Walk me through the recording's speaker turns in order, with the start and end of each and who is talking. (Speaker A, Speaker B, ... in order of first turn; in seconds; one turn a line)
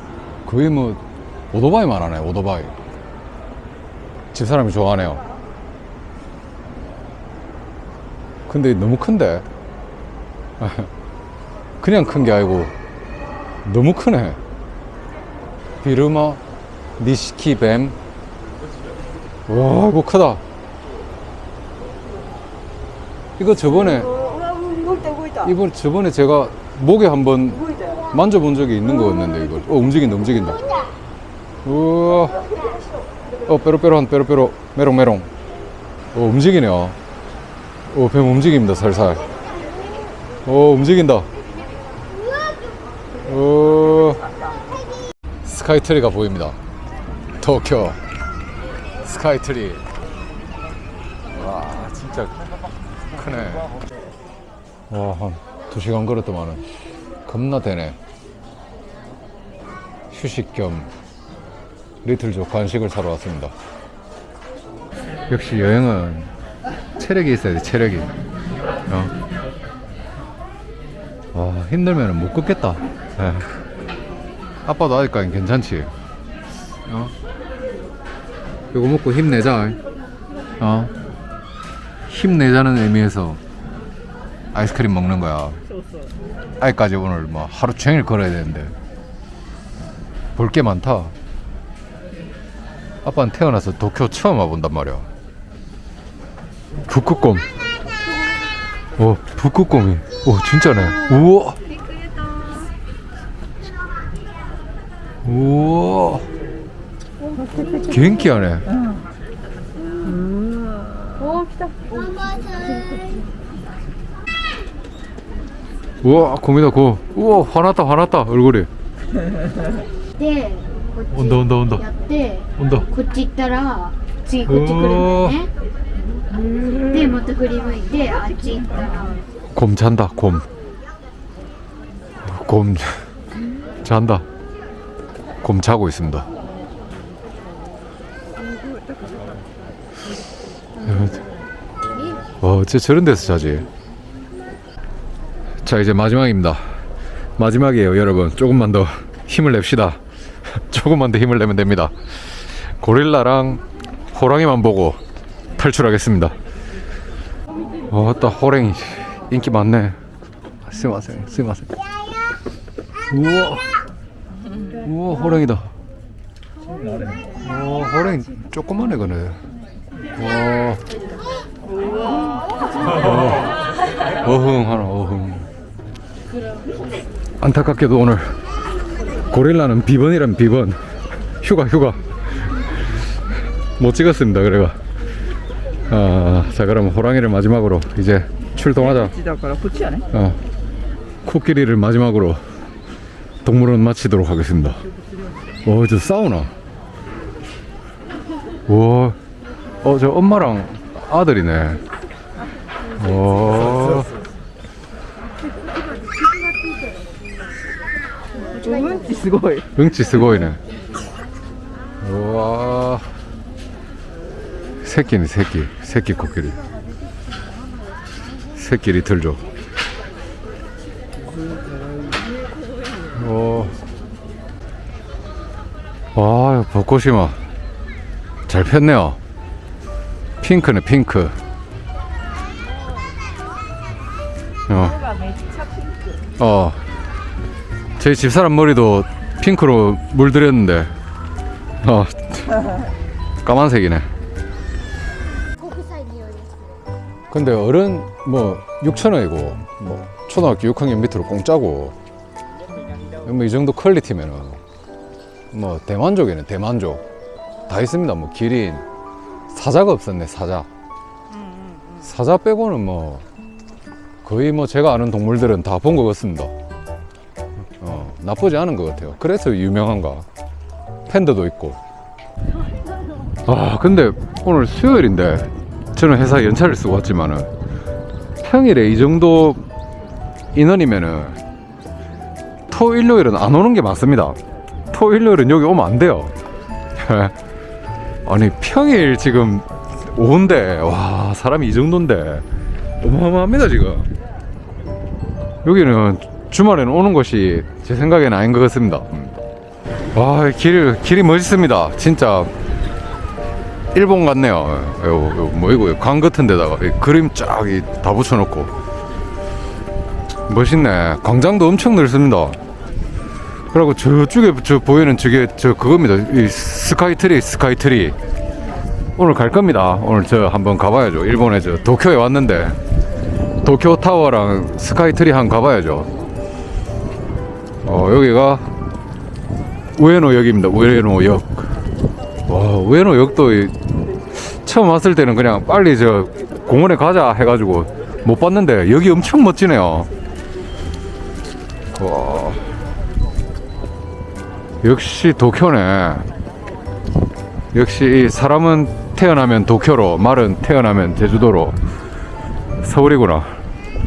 Speaker A: 0.5-1.0
Speaker A: 1.5-2.7
Speaker A: 4.3-5.2
Speaker A: 8.5-9.4
Speaker A: 10.6-10.9
Speaker A: 11.8-12.7
Speaker A: 13.6-14.4
Speaker A: 15.8-16.4
Speaker A: 17.0-17.9
Speaker A: 19.5-20.4
Speaker A: 23.4-24.1
Speaker B: 24.1-25.4
Speaker A: 25.4-30.6
Speaker A: 31.6-32.4
Speaker A: 33.5-35.3
Speaker A: 36.1-37.0
Speaker A: 37.9-39.2
Speaker A: 40.4-41.3
Speaker A: 43.2-44.2
Speaker A: 45.4-46.6
Speaker A: 47.4-48.0
Speaker A: 49.0-49.8
Speaker A: 51.3-52.4
Speaker A: 53.1-53.7
Speaker A: 54.9-56.7
Speaker A: 57.2-58.0
Speaker A: 60.1-60.9
Speaker A: 62.0-63.5
Speaker A: 65.3-66.3
Speaker A: 67.0-68.1
Speaker A: 68.9-69.1
Speaker A: 71.3-73.5
Speaker A: 74.6-75.9
Speaker A: 76.9-77.1
Speaker A: 78.7-79.8
Speaker A: 80.6-80.9
Speaker A: 82.1-83.4
Speaker A: 84.5-85.6
Speaker A: 86.6-88.7
Speaker A: 90.3-91.1
Speaker A: 93.0-95.1
Speaker A: 96.9-97.4
Speaker A: 99.0-101.6
Speaker A: 105.2-106.2
Speaker A: 107.7-108.7
Speaker B: 110.0-111.4
Speaker C: 112.3-112.7
Speaker A: 116.0-118.7
Speaker C: 120.2-121.0
Speaker A: 121.1-121.9
Speaker C: 121.9-124.5
Speaker A: 122.5-122.9
Speaker A: 124.4-125.5
Speaker C: 126.9-129.1
Speaker A: 129.5-130.4
Speaker A: 132.2-133.0
Speaker A: 133.8-134.2
Speaker A: 135.4-136.3
Speaker A: 140.8-141.2
Speaker A: 142.4-143.7
Speaker A: 145.6-146.6
Speaker A: 147.4-155.0
Speaker A: 155.6-156.3
Speaker A: 157.9-160.0
Speaker A: 160.7-161.8
Speaker A: 163.1-163.7
Speaker A: 164.8-165.7
Speaker A: 167.4-169.4
Speaker A: 170.2-170.8
Speaker A: 172.9-173.5
Speaker A: 174.2-175.5
Speaker A: 177.4-178.3
Speaker A: 179.3-180.8
Speaker A: 181.4-182.0
Speaker A: 183.8-184.8
Speaker A: 185.9-189.1
Speaker B: 188.8-190.1
Speaker A: 190.1-190.4
Speaker A: 191.2-192.4
Speaker A: 193.4-194.8
Speaker A: 195.6-196.5
Speaker A: 198.7-199.2
Speaker A: 199.8-201.8
Speaker A: 203.0-204.1
Speaker B: 208.5-209.7
Speaker A: 209.8-210.6
Speaker A: 212.0-213.1
Speaker A: 214.8-216.6
Speaker A: 218.5-219.4
Speaker A: 223.1-223.8
Speaker A: 226.1-227.4
Speaker A: 228.5-229.2
Speaker A: 230.4-231.3
Speaker A: 234.7-234.9
Speaker B: 234.8-236.3
Speaker A: 236.4-236.8
Speaker A: 238.0-240.9
Speaker A: 241.8-242.6
Speaker A: 243.4-244.1
Speaker C: 245.6-246.5
Speaker A: 247.3-251.9
Speaker A: 253.2-254.6
Speaker A: 255.5-257.0
Speaker A: 257.7-258.8
Speaker A: 259.5-260.7
Speaker B: 261.3-262.1
Speaker A: 262.0-263.2
Speaker A: 264.2-266.5
Speaker A: 267.8-270.2
Speaker A: 271.1-271.8
Speaker A: 273.4-277.5
Speaker A: 278.4-279.7
Speaker A: 280.5-281.4
Speaker A: 282.7-284.4
Speaker A: 284.9-286.3
Speaker A: 287.0-287.3
Speaker A: 288.2-292.4
Speaker A: 293.0-294.1
Speaker A: 295.6-299.4
Speaker A: 300.1-302.5
Speaker A: 303.9-308.7
Speaker A: 310.5-312.6
Speaker A: 313.7-318.1
Speaker A: 319.2-322.8
Speaker A: 323.6-326.1
Speaker A: 327.8-328.6
Speaker A: 329.9-331.7
Speaker A: 332.5-333.7
Speaker A: 334.3-340.1
Speaker A: 341.9-342.6
Speaker A: 344.8-346.3
Speaker A: 347.7-351.8
Speaker A: 352.8-353.5